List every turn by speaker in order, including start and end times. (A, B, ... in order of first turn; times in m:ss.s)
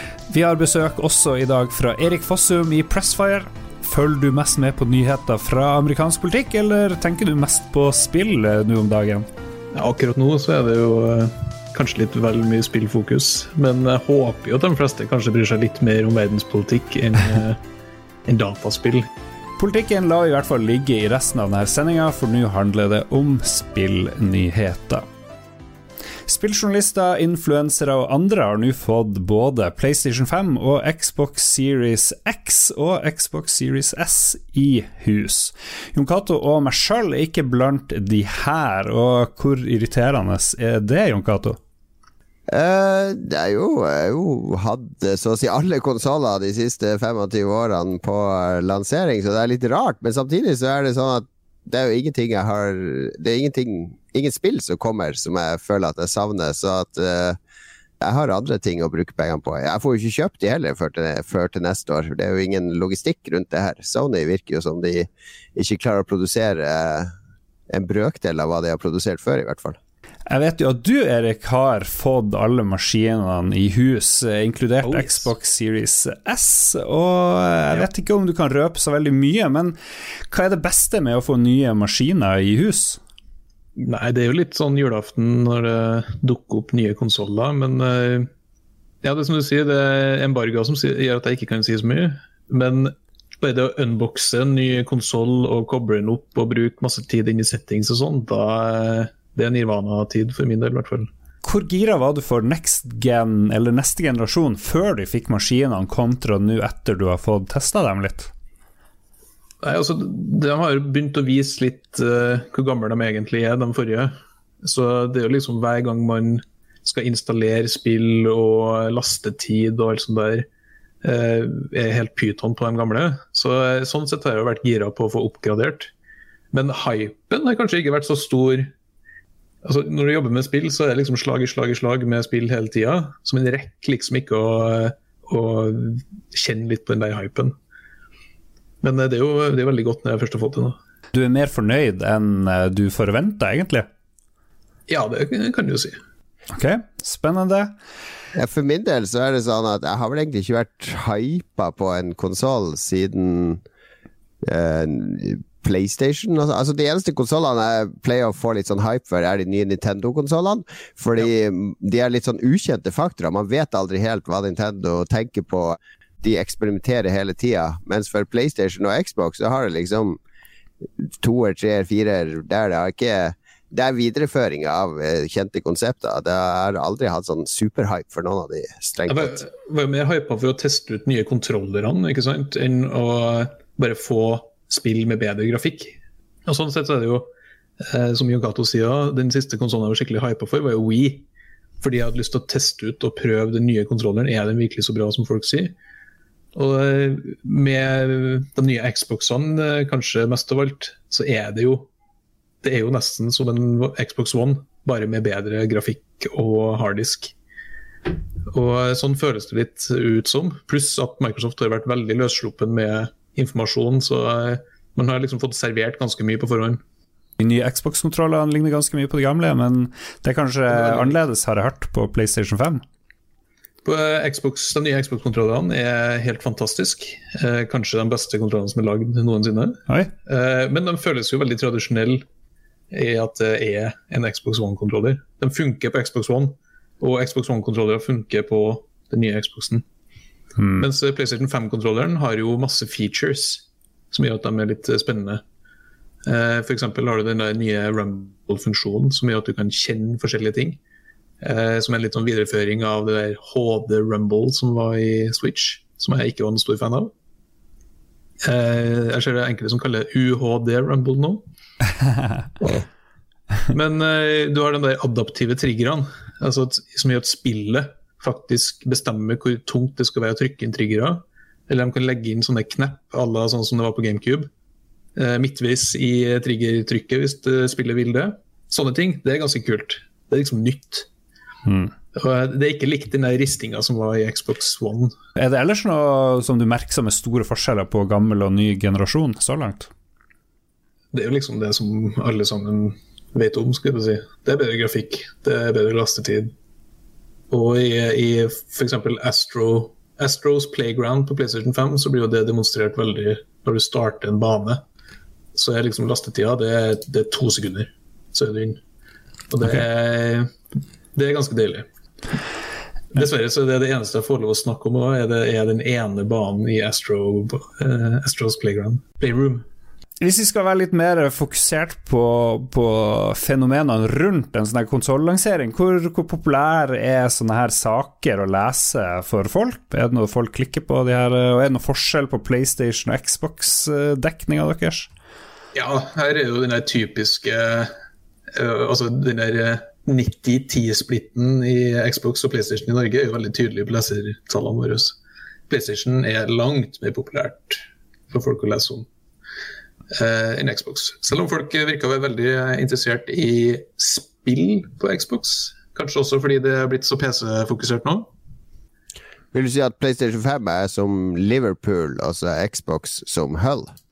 0:00.3-0:09.3 A
0:09.7-0:17.6 B
0:18.3-0:19.1 B
0:19.6-0:25.0 A
0:26.3-0:41.6 A
0:42.5-0:57.4 C
0:58.0-1:07.1 C
1:07.7-1:09.8 C
1:10.3-1:19.8 A
1:14.8-1:15.3 B
1:20.3-1:23.0 A
1:23.8-1:28.3 B
1:29.0-1:41.1 B
1:41.4-1:48.3 A
1:49.6-2:00.5 B
2:01.0-2:05.9 B
2:06.5-2:08.7 B
2:09.6-2:17.6 B
2:18.8-2:20.8 B
2:21.1-2:23.9 A
2:24.9-2:26.0 B
2:26.5-2:27.8 A
2:28.4-2:33.6 C
2:34.4-2:50.2 C
2:51.0-2:59.4 C
2:59.1-3:07.3 B
3:07.8-3:11.3 B
3:11.8-3:15.8 B
3:16.6-3:21.9 B
3:22.6-3:27.3 B
3:28.5-3:36.8 B
3:37.4-3:42.8 A
3:40.7-3:41.2 B
3:43.8-3:52.2 B
3:52.9-3:59.8 B
4:00.6-4:00.8 A
4:00.8-4:05.4 B
4:06.2-4:10.8 B
4:11.4-4:17.1 B
4:18.4-4:21.4 B
4:23.7-4:34.5 B
4:35.2-4:41.1 B
4:41.7-4:41.9 A
4:42.1-4:45.2 B
4:45.4-4:49.9 A
4:51.1-4:56.5 B
4:57.5-5:04.8 B
5:05.6-5:08.8 B
5:09.5-5:10.5 B
5:11.2-5:11.9 B
5:13.1-5:19.6 B
5:20.2-5:35.1 A
5:35.7-5:37.9 B
5:38.5-5:45.2 B
5:45.7-5:49.1 B
5:50.1-5:58.3 B
5:59.5-6:03.9 C